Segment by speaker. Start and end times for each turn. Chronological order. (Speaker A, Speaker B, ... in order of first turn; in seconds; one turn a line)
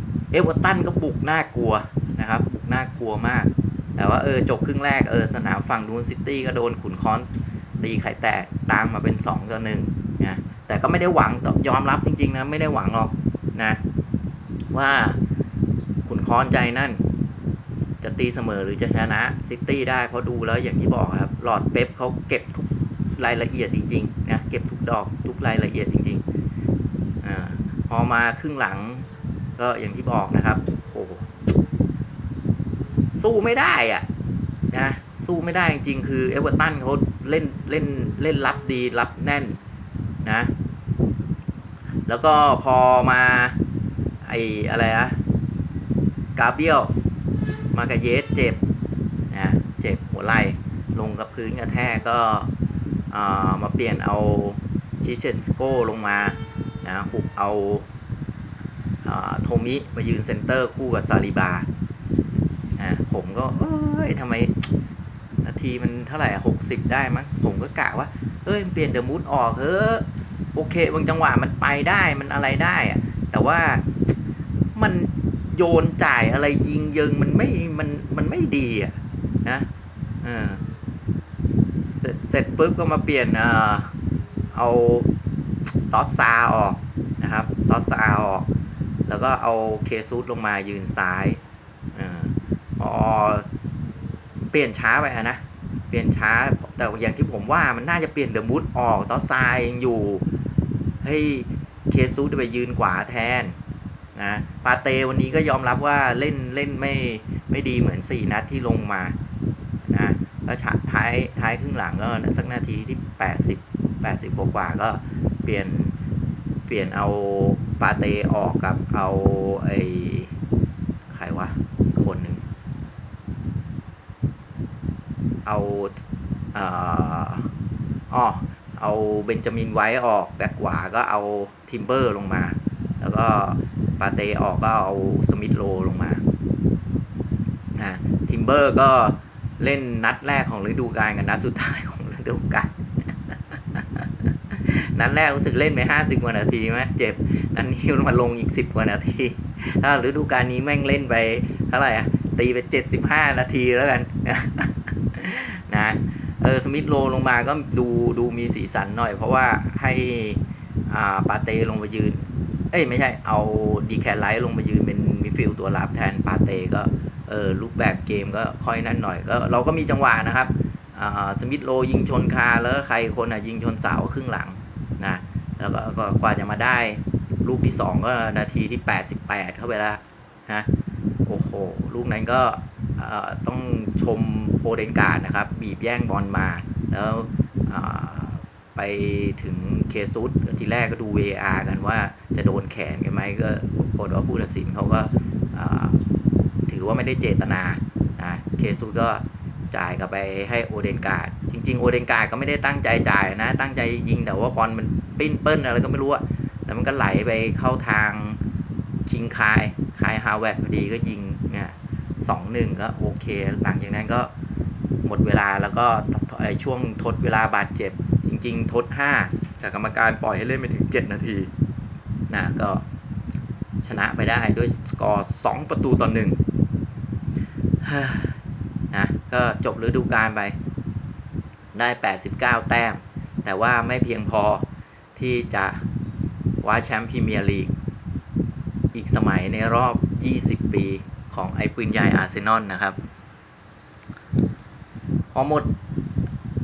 Speaker A: 0.3-7.3
Speaker A: 7.8-13.8
Speaker A: 14.7-15.2
Speaker A: 16.0-17.0
Speaker A: 18.0-26.2
Speaker A: 27.2-31.3
Speaker A: 32.9-34.1
Speaker A: 34.7-39.6
Speaker A: 40.2-40.5
Speaker A: 42.1-43.6
Speaker A: 44.2-45.2
Speaker A: 46.4-46.9
Speaker A: 47.7-48.6
Speaker A: 49.3-52.5
Speaker A: 53.1-57.9
Speaker A: 59.0-61.7
Speaker A: 62.8-64.7
Speaker A: 65.4-73.8
Speaker A: 74.7-79.7
Speaker A: 80.2-80.6
Speaker A: 81.9-83.9
Speaker A: 84.5-85.1
Speaker A: 85.9-88.5
Speaker A: 89.1-91.4
Speaker A: 91.9-93.5
Speaker A: 94.5-100.2
Speaker A: 101.0-103.5
Speaker A: 104.1-109.2
Speaker A: 109.8-116.0
Speaker A: 116.7-120.3
Speaker A: 121.1-122.4
Speaker A: 125.5-126.0
Speaker A: 126.5-127.5
Speaker A: 128.1-136.2
Speaker A: 137.8-180.7
Speaker A: 181.2-196.0
Speaker A: 196.7-208.4
Speaker A: 209.1-214.3
Speaker A: 215.0-221.5
Speaker A: 222.3-222.8
Speaker A: 223.8-226.4
Speaker A: 227.8-228.4
Speaker A: 228.9-230.6
Speaker A: 231.7-234.6
Speaker A: 235.2-235.8
Speaker A: 236.6-237.7
Speaker A: 238.9-243.0
Speaker A: 245.3-245.7